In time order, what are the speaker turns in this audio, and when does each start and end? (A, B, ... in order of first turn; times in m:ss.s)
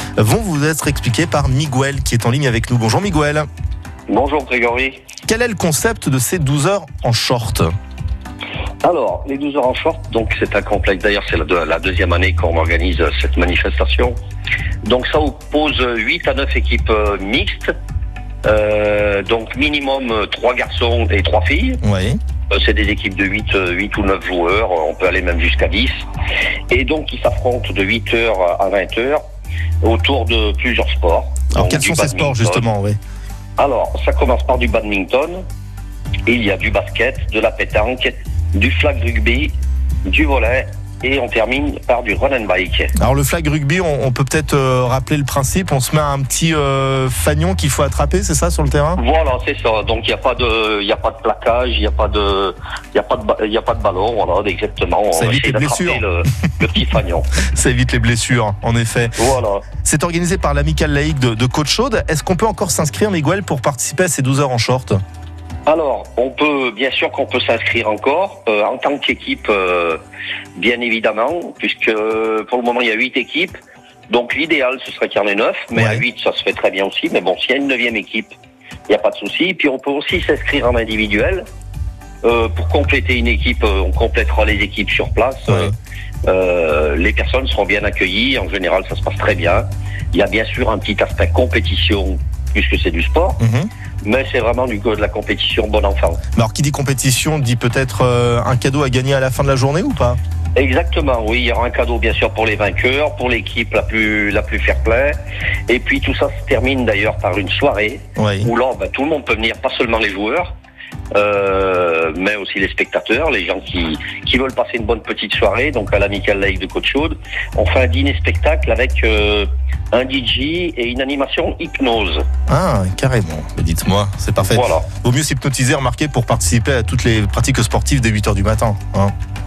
0:00.2-0:03.4 A
0:04.1-0:05.0 B
0:05.3-0:07.7 A
0:08.8-0:14.2 B
0:14.8-0:17.7 B
0:18.4-0:21.8 B
0:21.8-0:22.2 A
0:22.5-0:26.0 B
0:26.7-0:29.2 B
0:29.8-0:32.7 B
0:31.5-0:33.0 A
0:33.6-0:35.4 B
0:36.3-0:39.5 B
0:40.0-0:42.9 B
0:43.0-0:49.0 A
0:49.0-0:57.3 B
0:55.1-0:56.0 A
0:57.4-0:59.1 A
0:59.2-0:59.7 B
0:59.8-1:05.0 A
1:05.6-1:10.0 B
1:10.5-1:13.5 B
1:14.1-1:18.3 B
1:15.7-1:16.0 A
1:18.9-1:21.4 B
1:22.2-1:25.7 B
1:25.5-1:25.7 A
1:26.2-1:33.4 B
1:33.4-1:33.7 A
1:34.0-1:36.2 B
1:36.3-1:40.2 A
1:40.5-1:50.5 B
1:48.2-1:48.5 A
1:51.1-2:02.2 B
2:02.5-2:09.1 A
2:04.4-2:04.9 B